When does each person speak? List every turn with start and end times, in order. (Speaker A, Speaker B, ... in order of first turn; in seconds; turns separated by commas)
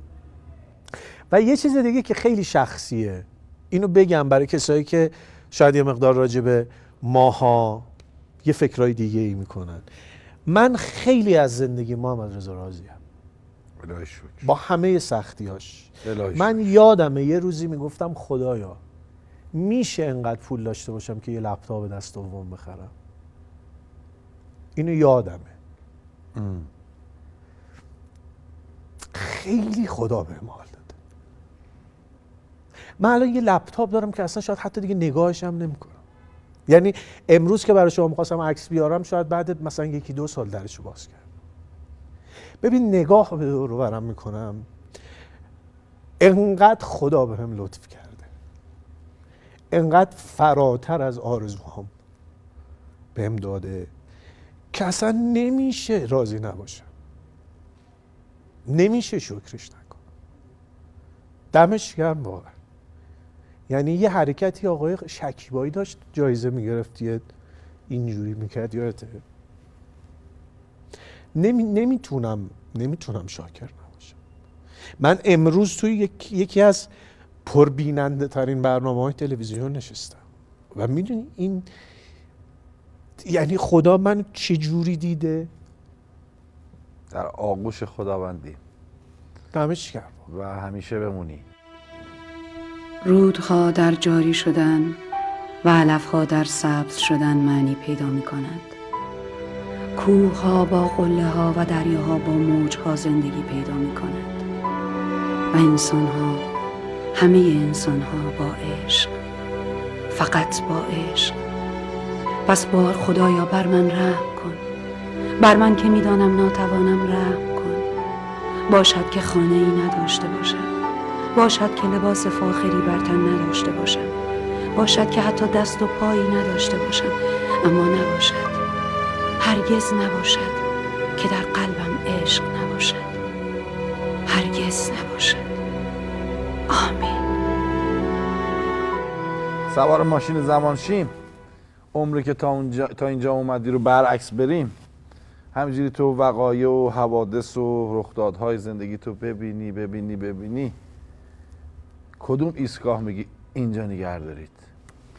Speaker A: 1.3-7.9, Speaker A: 8.4-9.9, Speaker A: 10.5-13.0, Speaker B: 13.8-14.5, Speaker A: 14.4-18.8, Speaker B: 16.0-16.6, Speaker A: 19.5-22.9, Speaker A: 24.8-25.5, Speaker B: 26.4-26.7, Speaker A: 29.1-30.9, Speaker A: 33.0-36.0, Speaker A: 36.7-41.3, Speaker A: 42.6-44.7, Speaker A: 46.2-48.3, Speaker A: 49.7-51.9, Speaker A: 53.1-53.9, Speaker A: 54.7-56.9, Speaker A: 58.7-60.0, Speaker A: 61.5-62.5, Speaker A: 63.7-67.3, Speaker A: 67.9-69.2, Speaker A: 71.3-74.2, Speaker A: 75.0-76.9, Speaker A: 77.5-80.2, Speaker A: 80.7-81.7, Speaker A: 83.2-85.5, Speaker B: 87.1-88.6, Speaker A: 89.5-90.2, Speaker B: 90.3-91.4, Speaker C: 93.0-95.0, Speaker C: 95.6-98.8, Speaker C: 100.0-104.4, Speaker C: 105.5-106.4, Speaker C: 107.2-109.1, Speaker C: 110.1-111.4, Speaker C: 112.5-114.6, Speaker C: 115.4-117.8, Speaker C: 118.7-120.7, Speaker C: 121.3-124.1, Speaker C: 124.8-128.6, Speaker C: 129.4-130.6, Speaker C: 131.2-133.1, Speaker C: 134.3-135.4, Speaker C: 136.7-137.2, Speaker B: 139.7-141.1, Speaker B: 141.9-144.8, Speaker B: 145.5-150.8, Speaker B: 152.2-154.6